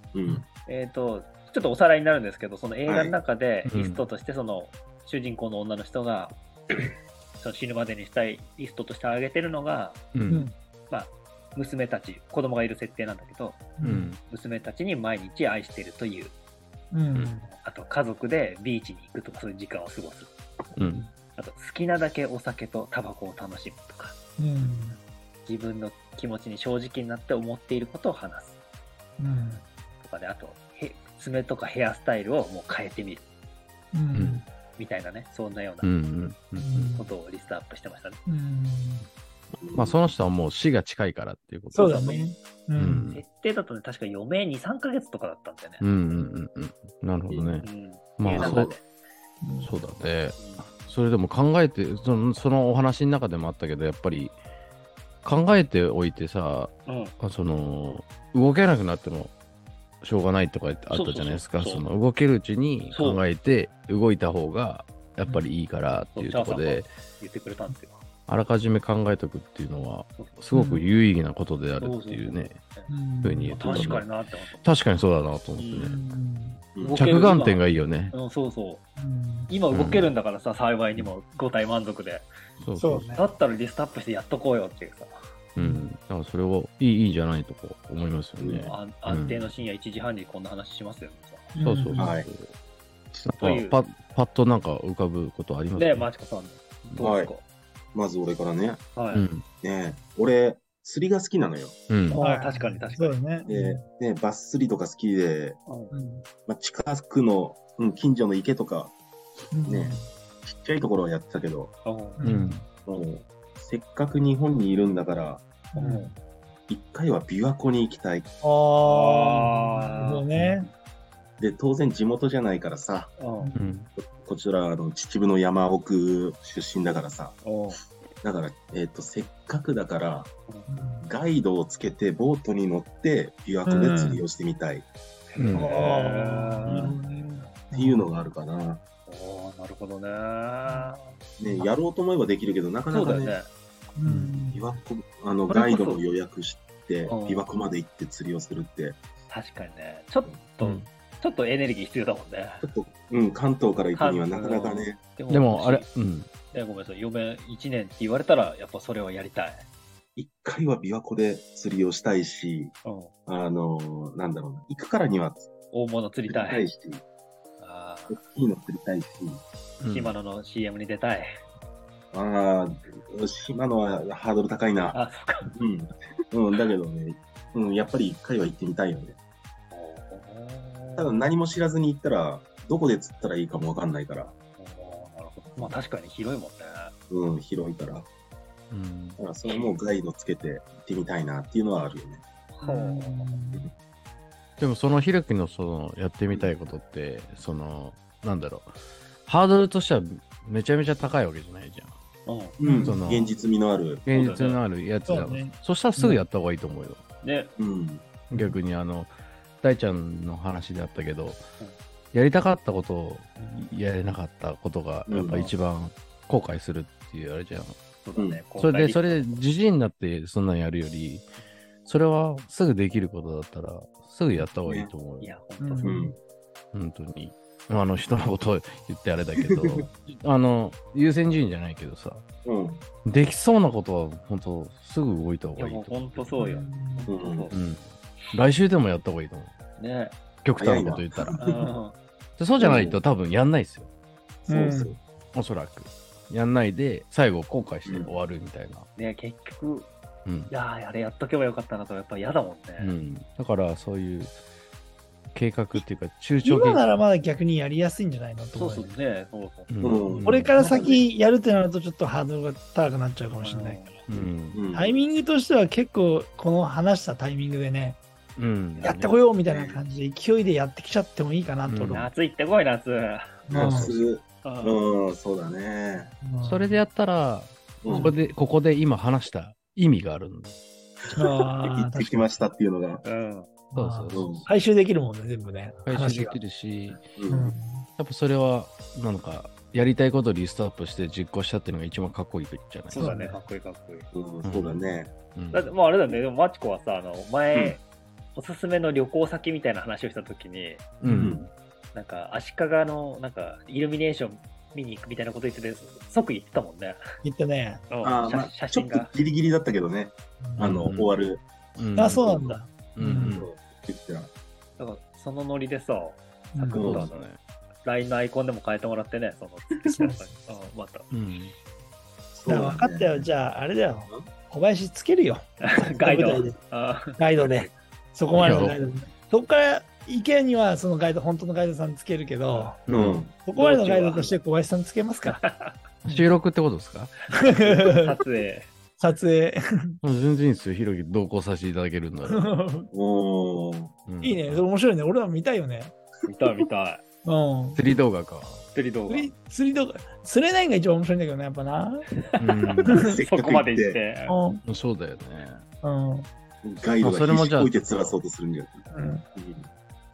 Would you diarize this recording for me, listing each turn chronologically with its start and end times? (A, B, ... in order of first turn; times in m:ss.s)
0:00.1-0:00.4 A
0:00.6-0:06.4 B
0:02.9-0:03.1 A
0:03.6-0:04.0 C
0:07.4-0:10.0 B
0:10.1-0:10.4 C
0:10.3-0:10.5 D
0:10.9-0:13.7 B
0:13.8-0:14.1 D
0:13.8-0:14.2 C
0:14.2-0:16.3 B
0:16.9-0:17.5 D
0:17.5-0:20.3 B
0:20.8-0:21.1 C
0:21.4-0:24.2 B
0:24.4-0:25.0 D
0:25.4-0:28.6 B
0:29.2-0:29.6 D
0:30.0-0:33.2 B
0:33.9-0:34.4 D
0:34.1-0:34.4 C
0:34.7-0:35.9 B
0:35.8-0:36.9 C
0:36.6-0:37.1 D
0:37.0-0:38.2 B
0:38.2-0:39.1 D
0:39.6-0:40.0 A
0:39.7-0:42.2 C
0:41.7-0:43.1 D
0:41.8-0:42.2 B
0:42.8-0:43.2 C
0:43.1-0:45.9 B
0:45.8-0:47.6 C
0:47.3-0:47.6 A
0:47.6-0:48.7 B
0:48.2-0:48.7 C
0:48.2-0:48.8 A
0:49.4-0:49.7 D
0:49.6-0:54.4 C
0:50.4-0:50.6 B
0:55.2-0:59.3 C
0:56.8-0:57.1 B
1:00.0-1:06.9 C
1:00.9-1:01.8 B
1:02.9-1:03.2 B
1:06.1-1:08.0 B
1:08.3-1:12.6 C
1:10.5-1:10.8 D
1:11.8-1:12.9 B
1:12.9-1:13.6 D
1:13.2-1:14.1 C
1:13.5-1:14.6 B
1:14.6-1:16.1 C
1:15.6-1:15.9 B
1:15.8-1:16.6 D
1:16.7-1:17.0 A
1:16.8-1:18.8 B
1:16.9-1:18.1 C
1:19.0-1:19.5 D
1:19.5-1:22.3 B
1:19.7-1:20.1 C
1:22.6-1:23.2 C
1:22.8-1:23.3 D
1:23.2-1:25.1 B
1:25.5-1:29.5 C
1:25.6-1:25.8 D
1:28.4-1:28.7 A
1:28.7-1:31.5 B
1:31.5-1:32.0 D
1:31.6-1:32.5 C
1:32.0-1:32.3 A
1:33.2-1:36.1 C
1:33.4-1:33.8 B
1:35.8-1:37.4 B
1:37.0-1:37.3 A
1:37.9-1:38.8 A
1:38.9-1:39.2 B
1:39.1-1:39.4 C
1:39.6-1:41.8 A
1:41.9-1:42.2 C
1:42.1-1:43.2 B
1:42.2-1:43.8 D
1:43.5-1:45.6 A
1:45.7-1:45.9 B
1:45.9-1:46.2 D
1:46.5-1:49.0 A
1:49.5-1:50.1 D
1:49.7-1:51.7 A
1:51.8-1:52.2 B
1:52.2-1:52.6 D
1:52.2-1:52.6 C
1:52.8-1:55.4 A
1:55.7-1:56.1 D
1:55.8-1:56.1 B
1:56.7-1:58.3 A
1:58.4-2:00.7 D
1:58.8-2:00.2 B
2:01.4-2:03.1 A
2:03.2-2:03.5 B
2:03.4-2:03.7 D
2:03.5-2:03.9 C
2:04.0-2:07.4 A
2:07.4-2:07.8 B
2:08.2-2:10.3 A
2:10.7-2:11.0 D
2:11.0-2:14.9 A
2:13.6-2:14.2 D
2:15.3-2:17.0 B
2:15.4-2:15.7 C
2:15.5-2:18.1 D
2:16.7-2:17.0 A
2:17.7-2:18.8 A
2:19.1-2:21.2 B
2:20.6-2:20.9 D
2:21.4-2:23.4 A
2:22.9-2:23.5 B
2:24.0-2:24.8 D
2:24.4-2:29.0 A
2:25.5-2:26.0 B
2:27.0-2:27.5 B
2:29.3-2:32.6 B
2:30.3-2:30.7 A
2:32.6-2:35.0 A
2:34.0-2:35.8 B
2:35.3-2:36.3 C
2:36.5-2:39.6 B
2:40.2-2:42.7 A
2:42.8-2:43.1 B
2:43.2-2:45.5 A
2:45.7-2:46.7 B
2:46.3-2:47.0 A
2:47.6-2:48.2 B
2:48.1-2:49.4 A
2:49.8-2:50.1 C
2:49.9-2:51.3 B
2:52.1-2:55.0 A
2:54.9-2:55.5 B
2:55.5-2:59.2 A
2:59.7-3:01.3 B
3:01.0-3:04.3 A
3:04.6-3:06.9 B
3:07.1-3:08.1 A
3:08.7-3:09.2 C
3:09.2-3:12.2 A
3:09.4-3:09.7 B
3:12.5-3:13.3 B
3:12.6-3:13.6 D
3:14.6-3:18.7 C
3:19.2-3:21.9 C
3:22.2-3:22.6 B
3:22.6-3:24.0 A
3:22.6-3:23.1 D
3:22.8-3:23.3 C
3:24.0-3:27.0 C
3:24.1-3:24.6 B
3:25.0-3:26.2 D
3:27.2-3:27.5 B
3:27.6-3:28.2 A
3:28.3-3:29.1 C
3:29.6-3:31.4 C
3:32.1-3:37.8 C
3:35.1-3:35.5 A
3:38.0-3:39.4 B
3:38.1-3:38.4 A
3:38.6-3:41.2 C
3:41.8-3:45.3 C
3:45.2-3:46.0 B
3:45.6-3:46.1 D
3:45.8-3:46.2 A
3:46.7-3:52.2 C
3:49.4-3:49.8 A
3:52.4-3:52.8 A
3:53.0-3:56.4 C
3:55.6-3:57.5 B
3:56.4-3:57.1 D
3:57.1-3:57.5 A
3:57.5-3:59.5 C
3:59.8-4:00.2 B
4:00.4-4:01.4 C
4:00.6-4:01.7 A
4:01.4-4:02.0 B
4:02.4-4:03.9 C
4:02.6-4:03.0 A
4:04.5-4:05.0 D
4:04.5-4:05.0 A
4:05.3-4:08.9 C
4:07.8-4:08.1 A
4:09.0-4:09.9 B
4:10.2-4:10.5 C
4:10.5-4:12.9 B
4:12.8-4:14.4 C
4:15.3-4:16.8 C
4:16.4-4:18.9 D
4:18.5-4:19.7 B
4:19.7-4:20.5 C
4:19.8-4:21.0 A
4:20.2-4:23.8 D
4:23.4-4:24.0 B
4:24.1-4:24.6 C
4:24.5-4:25.0 A
4:24.7-4:28.0 D
4:28.4-4:29.1 C
4:28.8-4:32.1 D
4:29.4-4:29.8 A
4:31.7-4:32.1 C
4:31.9-4:34.8 B
4:33.5-4:36.1 A
4:33.5-4:33.9 D
4:36.2-4:36.8 D
4:36.4-4:40.6 C
4:37.8-4:38.2 A
4:37.9-4:38.1 D
4:41.0-4:43.0 A
4:41.1-4:42.5 D
4:43.0-4:43.5 B
4:43.7-4:46.4 D
4:43.7-4:44.5 C
4:44.1-4:44.4 A
4:45.8-4:47.0 C
4:47.1-4:47.6 A
4:47.3-4:47.9 D
4:48.0-4:53.1 C
4:52.9-4:53.4 D
4:52.9-4:54.1 B
4:54.1-4:55.1 A
4:54.4-4:54.8 C
4:55.3-4:55.7 C
4:55.5-4:57.8 B
4:58.3-5:00.9 B
5:01.0-5:01.5 C
5:01.0-5:01.4 A
5:01.9-5:07.0 B
5:07.2-5:07.8 D
5:07.9-5:09.1 B
5:08.0-5:11.4 A
5:10.4-5:10.8 D
5:10.6-5:11.1 C
5:11.8-5:12.3 C
5:12.0-5:13.4 D
5:12.1-5:12.6 A
5:12.9-5:13.5 C
5:13.2-5:14.3 A
5:14.8-5:17.3 B
5:16.5-5:16.9 D
5:16.7-5:17.1 A
5:16.7-5:17.4 C
5:17.8-5:21.1 B
5:19.9-5:20.6 D
5:21.1-5:21.5 C
5:22.4-5:23.3 A
5:22.4-5:25.4 D
5:25.6-5:27.2 B
5:26.0-5:26.6 D
5:27.2-5:32.8 D
5:28.4-5:28.8 C
5:32.9-5:33.2 C
5:32.9-5:33.3 A
5:33.4-5:35.4 D
5:33.6-5:34.3 B
5:35.2-5:35.8 B
5:36.0-5:37.1 C
5:37.3-5:38.2 D
5:37.8-5:38.7 B
5:39.0-5:40.0 D
5:40.0-5:42.6 C
5:42.2-5:42.9 D
5:42.9-5:43.9 A
5:44.1-5:44.6 C
5:44.2-5:45.9 D
5:46.3-5:47.0 B
5:47.2-5:47.8 D
5:47.7-5:48.6 C
5:48.7-5:49.3 B
5:49.1-5:52.1 D
5:52.3-5:54.4 B
5:52.4-5:53.0 C
5:53.0-5:54.0 A
5:54.3-5:54.6 D
5:54.6-5:55.6 C
5:55.8-5:56.3 D
5:56.6-5:58.8 A
5:57.0-5:58.2 C
5:58.9-5:59.2 D
5:59.3-5:59.7 A